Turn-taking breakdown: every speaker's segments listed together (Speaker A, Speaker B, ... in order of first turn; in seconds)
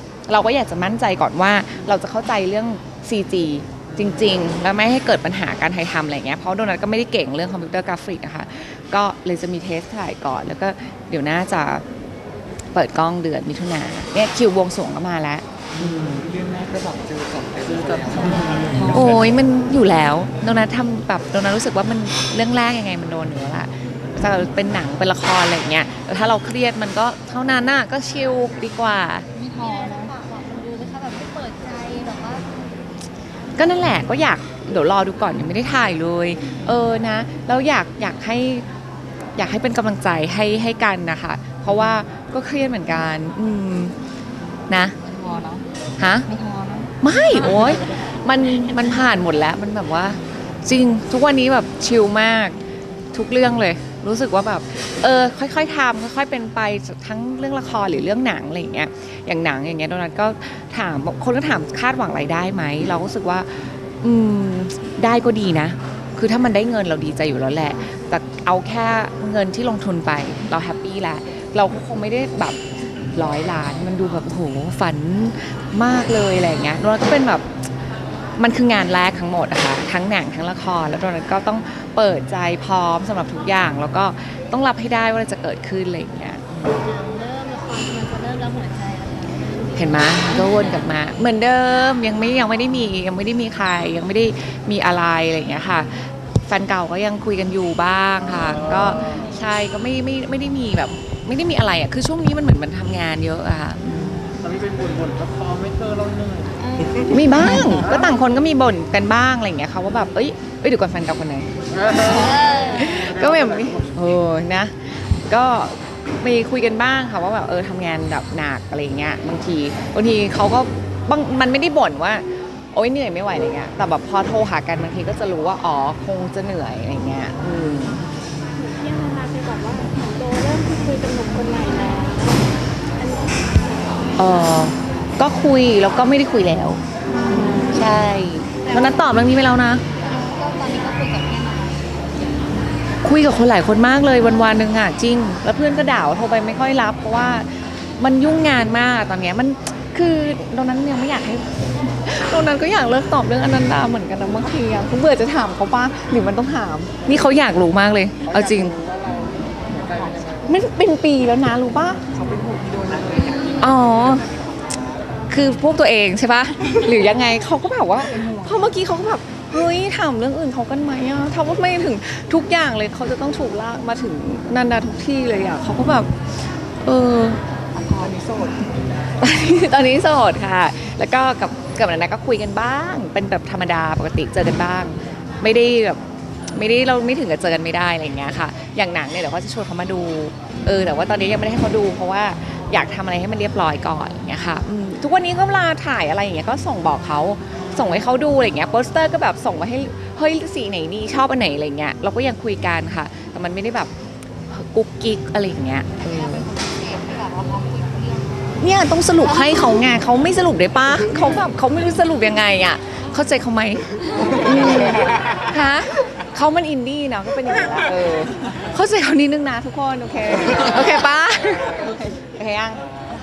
Speaker A: 0.3-11.8, 12.7-15.4, 18.9-29.3, 33.6-38.7, 39.4-43.9, 44.7-45.0, 46.0-46.3, 47.0-52.6, 53.1-72.6, 73.1-77.5, 78.4-86.8, 89.8-104.3, 107.1-128.0, 134.2-139.8, 143.0-158.8, 160.4-162.0, 163.6-164.3, 165.3-176.3, 176.8-177.4, 179.2-186.0, 186.5-203.9, 204.5-206.5, 208.6-222.8
Speaker B: 15.8-19.2
Speaker C: 17.7-18.5, 98.3-99.2, 104.4-106.6, 107.4-108.1, 111.7-114.1, 158.2-160.6
Speaker D: 18.7-19.1, 29.4-32.5, 45.0-45.6, 46.3-46.9, 86.8-90.8, 106.7-107.8, 112.1-112.9, 138.6-139.2, 140.0-142.6, 206.0-208.7, 209.2-209.6
Speaker E: 128.6-133.3, 137.3-137.8